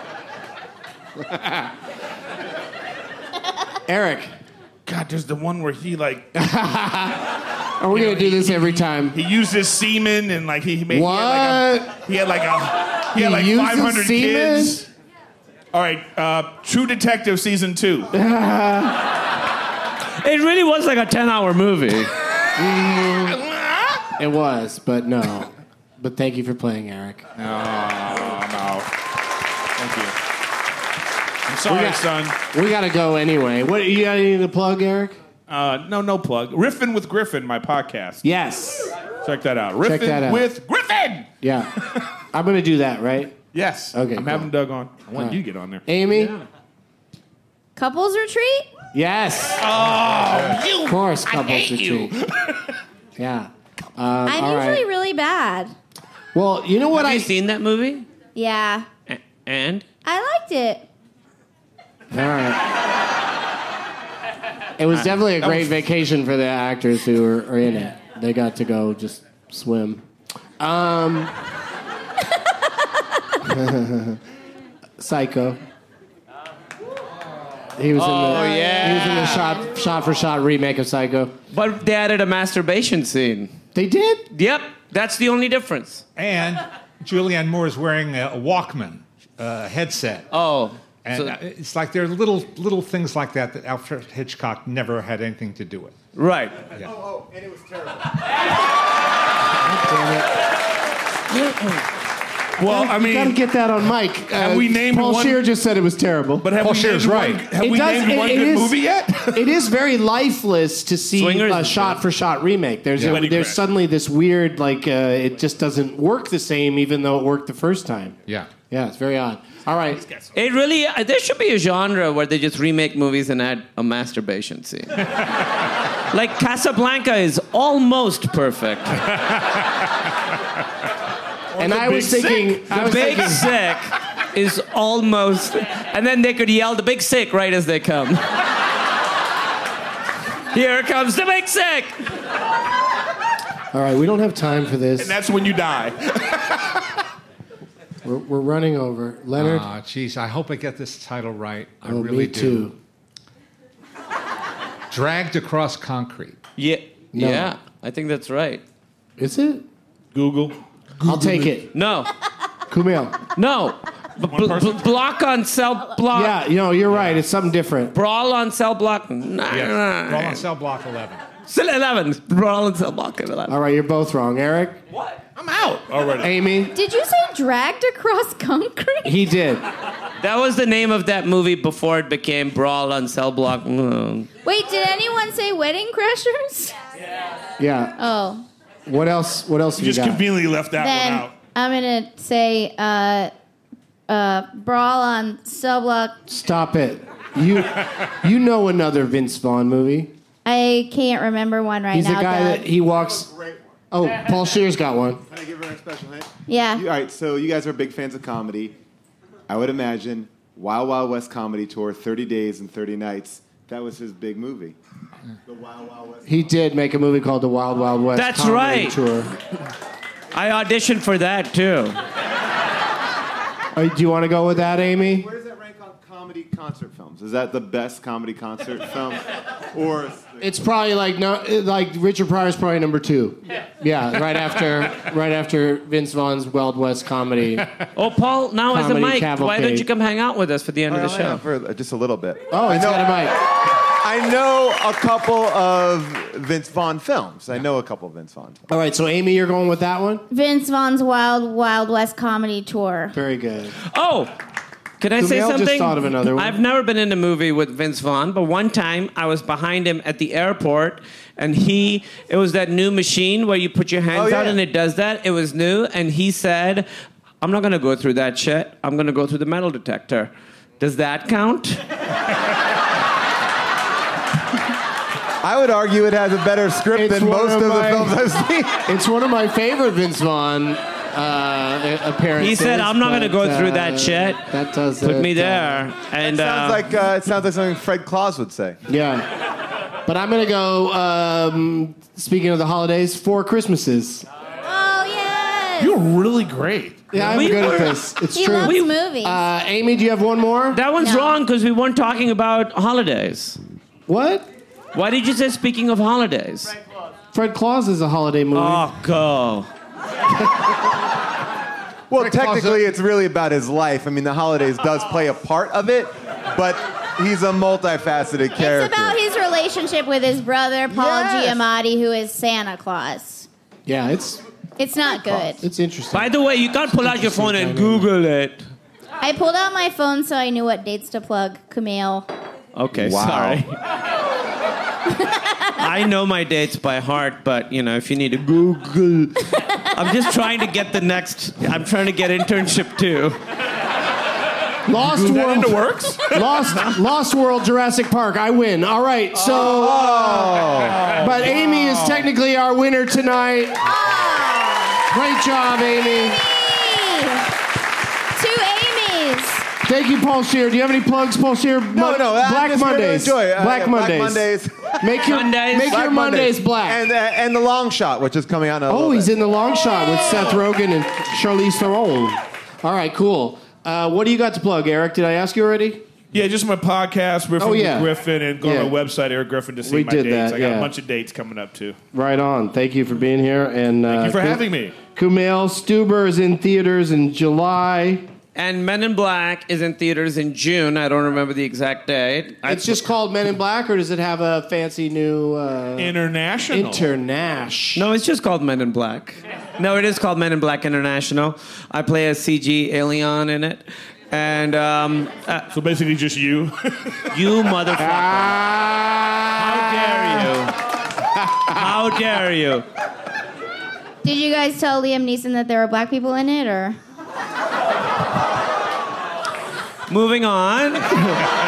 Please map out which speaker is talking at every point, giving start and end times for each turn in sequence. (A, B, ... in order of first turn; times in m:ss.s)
0:03.9-0:04.3 A
0:04.8-0:06.3 B
0:06.3-0:09.2 A
0:07.9-0:14.9 B
0:10.9-0:12.0 A
0:13.1-0:14.8 A
0:15.7-0:18.1 B
0:18.1-0:19.0 A
0:20.2-0:22.1 C
0:22.6-0:23.4 A
0:24.2-0:27.2 A
0:27.4-0:28.9 B
0:29.8-0:30.1 B
0:31.5-0:32.4 B
0:31.7-0:35.2 A
0:35.5-0:38.2 B
0:38.2-0:38.9 A
0:39.2-0:41.3 B
0:39.8-0:40.4 A
0:41.4-0:41.7 A
0:42.3-0:43.4 A
0:43.5-0:46.3 B
0:43.9-0:44.5 A
0:45.1-0:46.3 A
0:47.8-0:48.7 D
0:48.9-0:49.6 A
0:49.6-0:52.7 B
0:50.0-0:50.6 E
0:50.8-0:52.1 A
0:53.2-0:54.8 A
0:54.3-0:55.7 D
0:56.3-0:57.3 A
0:56.9-0:58.0 C
0:58.3-0:58.9 D
0:59.1-0:59.8 C
1:00.0-1:00.8 D
1:02.1-1:02.6 A
1:04.8-1:10.0 A
1:10.6-1:11.3 A
1:13.4-1:14.2 A
1:15.0-1:15.6 A
1:17.8-1:21.3 A
1:17.9-1:19.6 C
1:21.5-1:23.5 C
1:23.7-1:24.3 A
1:24.3-1:26.0 C
1:26.2-1:30.3 E
1:30.3-1:31.4 C
1:31.0-1:35.9 E
1:36.1-1:36.7 C
1:36.8-1:38.1 F
1:39.6-1:40.3 A
1:42.6-1:43.4 B
1:42.6-1:46.4 A
1:44.3-1:45.4 B
1:46.4-1:49.4 B
1:46.6-1:47.4 E
1:47.5-1:48.8 A
1:49.3-1:58.2 A
1:51.1-1:52.0 C
1:53.0-1:53.2 E
1:53.0-1:53.6 B
1:58.7-2:00.0 A
2:00.3-2:05.0 C
2:06.1-2:09.0 C
2:11.6-2:12.9 B
2:11.6-2:13.5 A
2:12.7-2:18.2 C
2:20.5-2:22.0 C
2:23.7-2:25.1 A
2:25.0-2:26.7 B
2:28.0-2:29.6 A
2:29.4-2:32.7 E
2:31.8-2:32.8 A
2:34.9-2:36.4 E
2:36.6-2:38.6 C
2:37.1-2:37.5 A
2:39.2-2:39.6 A
2:40.1-2:41.5 B
2:41.0-2:41.7 A
2:41.7-2:42.1 C
2:42.7-2:43.2 A
2:43.4-2:46.4 C
2:44.2-2:44.9 B
2:46.1-2:48.0 A
2:47.9-2:50.4 C
2:49.5-2:51.2 E
2:51.4-2:53.6 C
2:53.5-2:54.8 A
2:55.4-2:56.3 B
2:56.2-2:56.7 A
2:56.7-2:59.2 D
2:59.0-2:59.6 A
3:00.2-3:04.3 C
3:04.4-3:06.7 D
3:07.6-3:08.0 A
3:08.0-3:08.4 D
3:08.8-3:10.2 A
3:09.8-3:11.4 B
3:10.8-3:13.3 D
3:14.1-3:16.2 D
3:16.3-3:20.1 A
3:20.4-3:22.6 D
3:21.9-3:23.3 A
3:23.0-3:23.6 F
3:23.9-3:25.2 A
3:25.3-3:28.8 F
3:26.5-3:26.8 D
3:29.5-3:34.8 F
3:35.4-3:36.5 F
3:36.2-3:39.4 A
3:38.1-3:39.0 C
3:40.3-3:42.0 C
3:43.7-3:45.3 A
3:44.7-3:50.5 F
3:50.4-3:57.7 A
3:58.0-4:01.4 C
3:58.7-3:59.8 A
4:00.9-4:03.2 F
4:02.5-4:03.3 A
4:04.0-4:08.6 F
4:08.7-4:10.2 A
4:10.3-4:13.1 D
4:13.1-4:13.8 A
4:13.8-4:14.3 C
4:15.0-4:26.9 C
4:15.2-4:16.6 A
4:24.1-4:24.6 F
4:27.4-4:31.8 C
4:35.4-4:38.8 F
4:36.9-4:38.2 A
4:38.8-4:45.9 A
4:42.4-4:44.5 C
4:45.0-4:46.8 C
4:46.1-4:48.8 F
4:48.9-4:49.3 A
4:50.1-4:54.3 A
4:54.6-4:56.0 D
4:55.8-4:57.4 B
4:57.1-5:00.8 A
4:57.2-4:58.9 C
4:58.3-4:59.4 D
5:00.7-5:03.6 C
5:01.0-5:01.3 D
5:04.1-5:04.5 A
5:04.9-5:06.7 C
5:07.3-5:08.9 A
5:08.5-5:09.7 C
5:12.1-5:19.2 F
5:12.2-5:12.9 E
5:18.6-5:23.5 D
5:20.9-5:21.6 F
5:23.8-5:24.4 A
5:24.8-5:25.6 D
5:25.0-5:28.1 A
5:26.1-5:28.6 C
5:29.2-5:32.3 D
5:32.7-5:33.8 C
5:35.8-5:39.4 C
5:40.0-5:43.4 C
5:44.9-5:53.8 A
5:44.9-5:46.6 B
5:49.4-5:52.3 B
5:50.5-5:51.1 F
5:53.8-5:55.1 D
5:55.1-5:56.4 A
5:56.1-5:57.5 D
5:58.3-5:59.7 D
5:59.8-6:07.0 A
6:01.9-6:05.2 F
6:05.2-6:06.0 C
6:05.9-6:09.3 F
6:08.9-6:16.0 A
6:16.3-6:22.0 B
6:17.6-6:18.1 A
6:18.6-6:18.9 A
6:19.8-6:20.9 A
6:22.1-6:28.2 A
6:24.1-6:25.0 B
6:28.5-6:33.0 C
6:32.6-6:36.2 A
6:36.0-6:37.0 B
6:36.7-6:38.1 A
6:38.0-6:45.7 C
6:45.7-6:47.3 B
6:47.3-6:48.6 C
6:48.0-6:50.6 A
6:49.6-6:50.7 C
6:51.7-6:52.8 C
6:54.2-6:57.0 D
7:00.1-7:01.4 C